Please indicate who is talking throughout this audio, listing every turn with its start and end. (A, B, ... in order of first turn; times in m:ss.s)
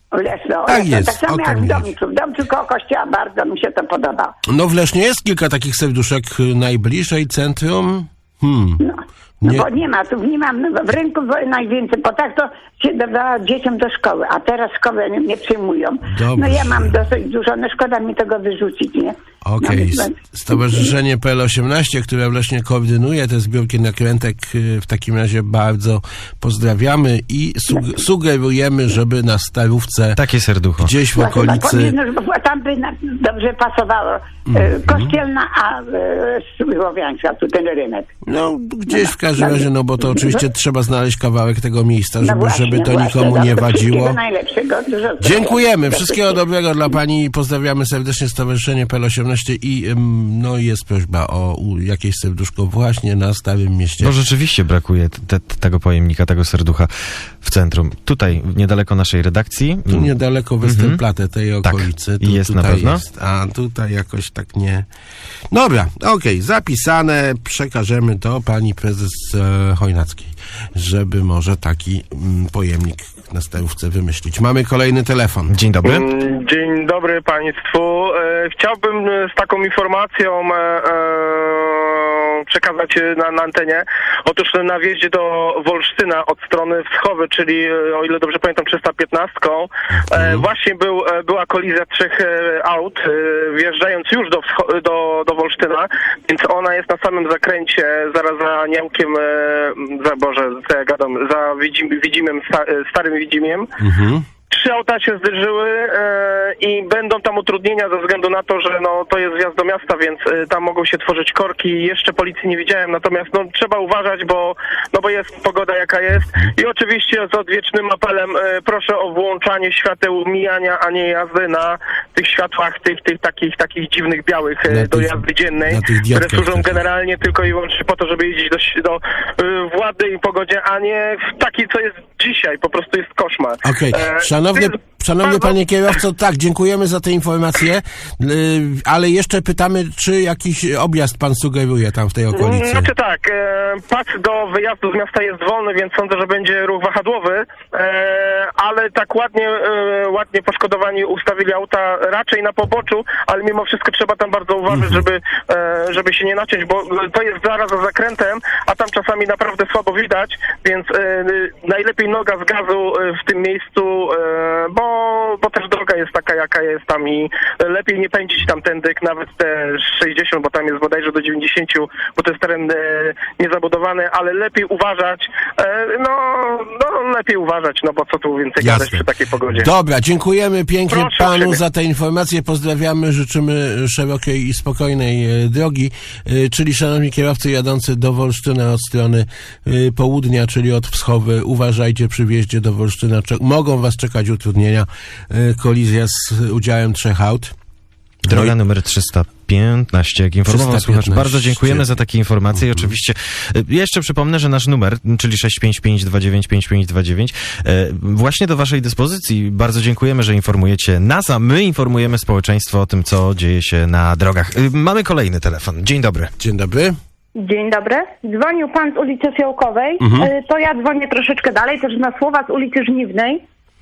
0:00.1-0:04.4 A
0:00.7-0:01.9 B
0:04.5-0:08.8 B
0:08.8-0:20.2 A
0:09.4-0:09.7 B
0:16.1-0:17.0 B
0:19.4-0:30.2 B
0:30.2-0:30.9 C
0:30.8-0:32.0 B
0:31.1-0:38.1 A
0:34.5-0:35.1 B
0:38.2-0:44.2 B
0:38.9-0:40.4 A
0:42.2-0:46.4 A
0:45.2-0:54.2 B
0:54.0-0:56.9 C
0:57.4-1:00.1 C
0:59.9-1:04.9 B
1:00.6-1:01.0 C
1:01.6-1:03.0 C
1:05.5-1:15.6 B
1:15.5-1:16.0 C
1:15.8-1:43.7 D
1:29.9-1:30.4 B
1:43.8-1:44.3 B
1:44.5-2:15.5 D
2:04.7-2:06.8 B
2:13.6-2:22.9 B
2:22.3-2:59.7 D
2:58.6-3:17.6 B
3:00.9-3:01.6 D
3:18.2-3:36.3 C
3:18.3-3:18.6 B
3:20.5-3:21.9 B
3:22.5-3:22.9 B
3:36.4-3:37.0 B
3:37.4-3:43.4 E
3:40.0-3:40.3 B